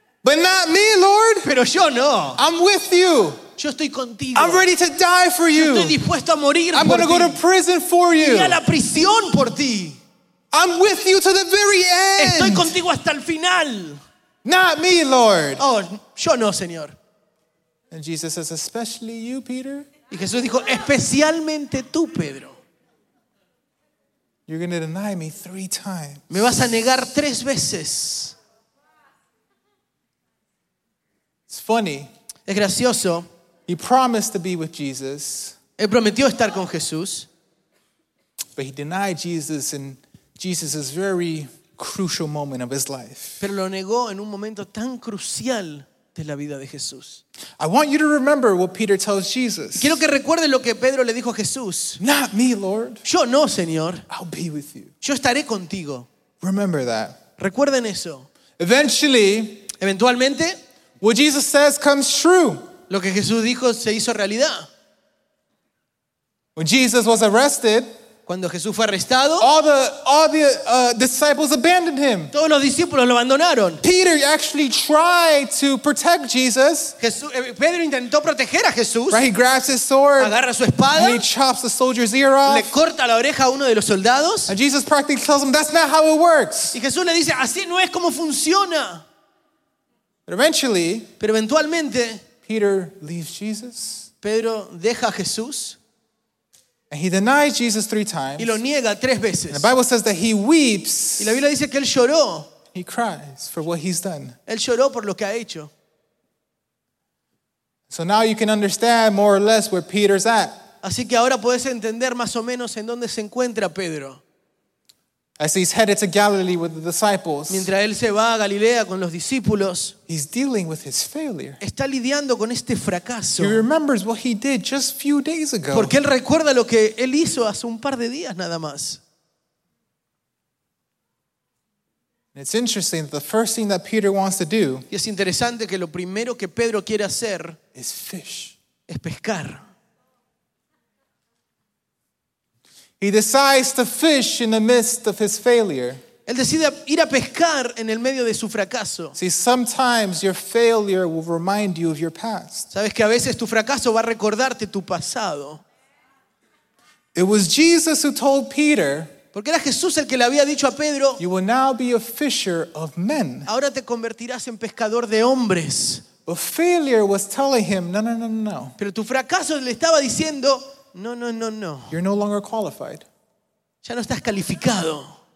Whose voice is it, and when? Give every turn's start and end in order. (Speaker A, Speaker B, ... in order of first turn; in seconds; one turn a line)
Speaker A: 0.2-1.5
Speaker B: 1.4-2.4
Speaker A: 2.4-3.4
Speaker B: 3.6-4.7
Speaker A: 4.3-6.0
Speaker B: 5.5-7.4
Speaker A: 6.7-8.6
Speaker B: 8.2-10.0
Speaker A: 10.5-12.8
Speaker B: 12.2-14.0
Speaker A: 14.4-15.6
Speaker B: 15.6-17.0
Speaker A: 17.9-19.9
Speaker B: 20.1-22.6
Speaker A: 24.5-26.5
Speaker B: 26.3-28.4
Speaker A: 31.5-32.1
Speaker B: 32.5-33.3
Speaker A: 33.7-35.6
Speaker B: 35.8-37.3
Speaker A: 38.6-43.4
Speaker B: 43.4-47.2
Speaker A: 47.6-50.0
Speaker B: 49.8-52.0
Speaker A: 52.0-53.0
Speaker B: 53.0-54.1
Speaker A: 54.1-54.9
Speaker B: 55.0-56.1
Speaker A: 56.4-57.2
Speaker B: 57.4-58.3
Speaker A: 58.6-59.7
Speaker B: 59.8-60.6
Speaker A: 61.0-62.7
Speaker B: 62.9-64.7
Speaker A: 66.6-67.9
Speaker B: 68.3-69.5
Speaker A: 69.4-72.3
Speaker B: 72.3-73.8
Speaker A: 73.8-77.0
Speaker B: 77.0-79.2
Speaker A: 79.1-80.3
Speaker B: 80.2-81.3
Speaker A: 80.9-82.7
Speaker B: 82.5-84.5
Speaker A: 84.5-86.8
Speaker B: 86.7-89.0
Speaker A: 90.3-91.1
Speaker B: 91.2-92.2
Speaker A: 92.4-94.1
Speaker B: 94.2-95.8
Speaker A: 96.9-98.6
Speaker B: 98.4-99.7
Speaker A: 99.5-101.4
Speaker B: 101.2-102.5
Speaker A: 102.7-104.4
Speaker B: 104.5-105.7
Speaker A: 107.9-110.7
Speaker B: 110.8-114.2
Speaker A: 115.4-117.7
Speaker B: 117.5-120.0
Speaker A: 120.1-121.6
Speaker B: 121.6-123.7
Speaker A: 123.4-126.0
Speaker B: 125.7-129.0
Speaker A: 132.3-134.9
Speaker B: 134.9-137.6
Speaker A: 137.8-138.6
Speaker B: 138.9-139.6
Speaker A: 143.0-146.0
Speaker B: 146.3-149.2
Speaker A: 149.2-152.7
Speaker B: 152.7-155.6
Speaker A: 157.2-159.1
Speaker B: 159.3-161.2
Speaker A: 161.2-163.5
Speaker B: 163.5-166.1
Speaker A: 166.2-168.8
Speaker B: 168.8-172.0
Speaker A: 171.9-173.1
Speaker B: 173.8-175.2